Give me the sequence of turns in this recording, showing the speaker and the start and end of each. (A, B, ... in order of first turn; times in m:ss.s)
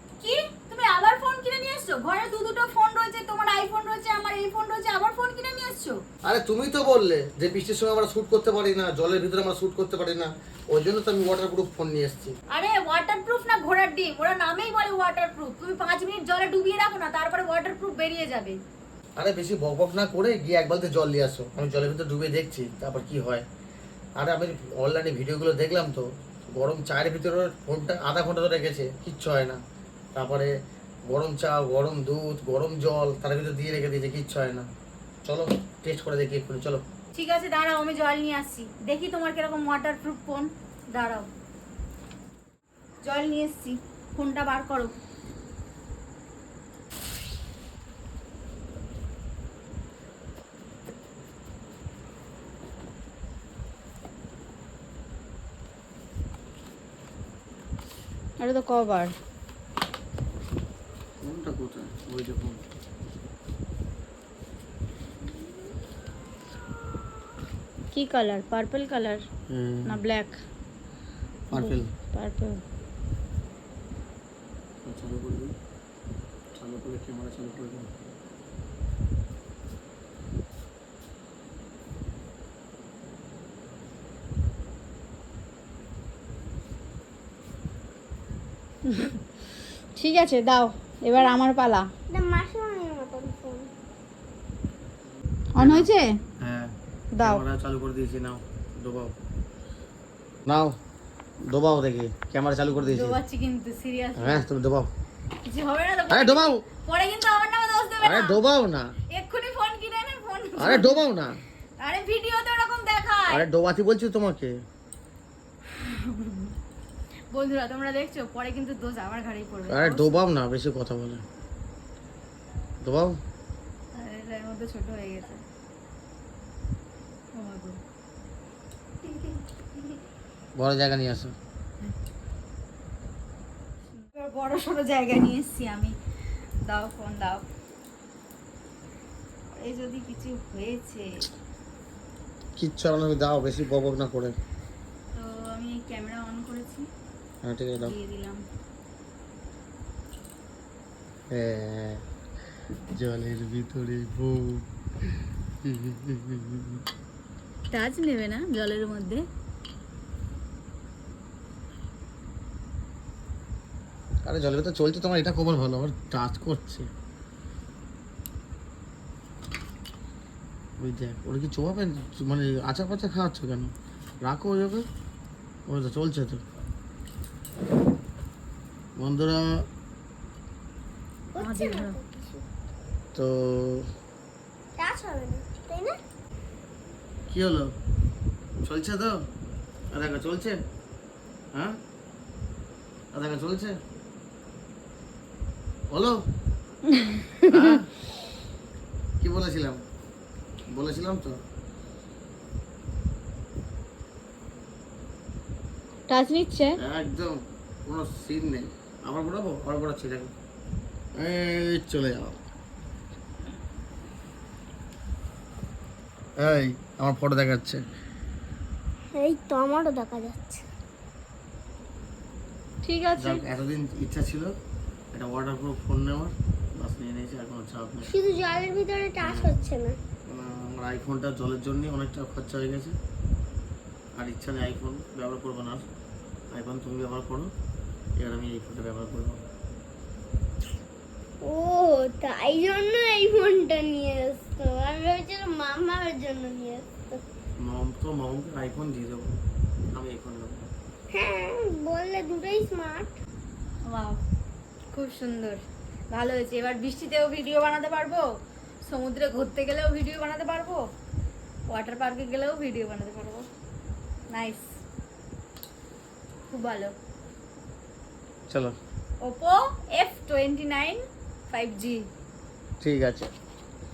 0:00.2-0:06.0 A
0:06.3-0:12.4 B
0:12.5-0:18.6 A
0:19.2-0:23.4 B
0:24.2-0:29.6 B
0:30.2-0:30.5 B
0:31.1-0:34.7 B
0:35.2-0:36.8 B
0:37.1-0:41.3 A
0:43.0-0:44.9 A
0:58.4-0:59.2 A
1:01.2-1:02.6 B
1:07.9-1:09.2 A
1:09.5-1:10.0 B
1:09.9-1:10.4 A
1:11.5-1:11.9 B
1:11.5-1:12.6 A
1:14.8-1:15.5 B
1:16.6-1:17.9 B
1:28.9-1:29.2 A
1:30.0-1:31.9 A
1:32.1-1:33.7 C
1:35.5-1:36.2 A
1:35.6-1:39.1 B
1:37.1-1:37.4 A
1:40.5-1:40.8 B
1:41.5-1:43.2 B
1:42.8-1:44.5 A
1:44.2-1:44.9 B
1:45.4-1:48.4 A
1:46.1-1:46.6 B
1:48.0-1:48.9 B
1:49.1-1:51.0 A
1:50.6-1:51.4 B
1:51.8-1:53.5 A
1:53.3-1:54.5 B
1:55.8-1:56.5 A
1:57.3-2:00.2 A
1:59.7-2:01.2 B
2:02.8-2:03.2 B
2:03.9-2:05.4 A
2:07.3-2:07.8 A
2:10.6-2:11.4 B
2:14.0-2:16.0 A
2:16.6-2:17.4 A
2:19.5-2:21.3 A
2:22.6-2:24.4 B
2:25.1-2:26.9 A
2:27.4-2:27.9 B
2:27.8-2:28.4 A
2:31.3-2:32.0 B
2:33.0-2:34.6 B
2:35.6-2:36.8 B
2:37.7-2:39.2 A
2:44.2-2:46.9 B
2:50.8-2:53.7 B
2:54.2-2:54.8 B
2:55.7-2:56.4 B
2:59.0-2:59.4 B
3:01.3-3:02.4 C
3:01.4-3:02.0 A
3:03.2-3:03.9 B
3:04.8-3:06.0 C
3:07.3-3:07.7 B
3:08.6-3:09.2 B
3:09.9-3:10.6 B
3:13.1-3:13.8 B
3:15.9-3:16.2 B
3:17.5-3:17.9 B
3:19.2-3:19.8 B
3:20.7-3:21.4 B
3:26.1-3:26.8 A
3:26.8-3:30.3 B
3:31.2-3:32.4 B
3:36.4-3:37.8 B
3:39.2-3:40.6 C
3:42.8-3:43.4 A
3:43.2-3:44.5 B
3:45.1-3:48.1 B
3:48.1-3:50.0 C
3:49.2-3:49.5 B
3:50.3-3:53.0 B
3:54.2-3:55.8 B
3:56.5-3:57.5 B
3:58.2-3:59.4 B
4:01.4-4:07.2 C
4:07.6-4:09.4 B
4:09.9-4:10.7 B
4:11.1-4:13.1 C
4:13.9-4:14.2 A
4:14.9-4:18.3 A
4:18.8-4:20.8 A
4:21.7-4:23.5 A
4:24.3-4:24.8 A
4:26.5-4:26.9 A
4:28.5-4:28.7 B
4:29.2-4:32.1 A
4:32.8-4:33.3 B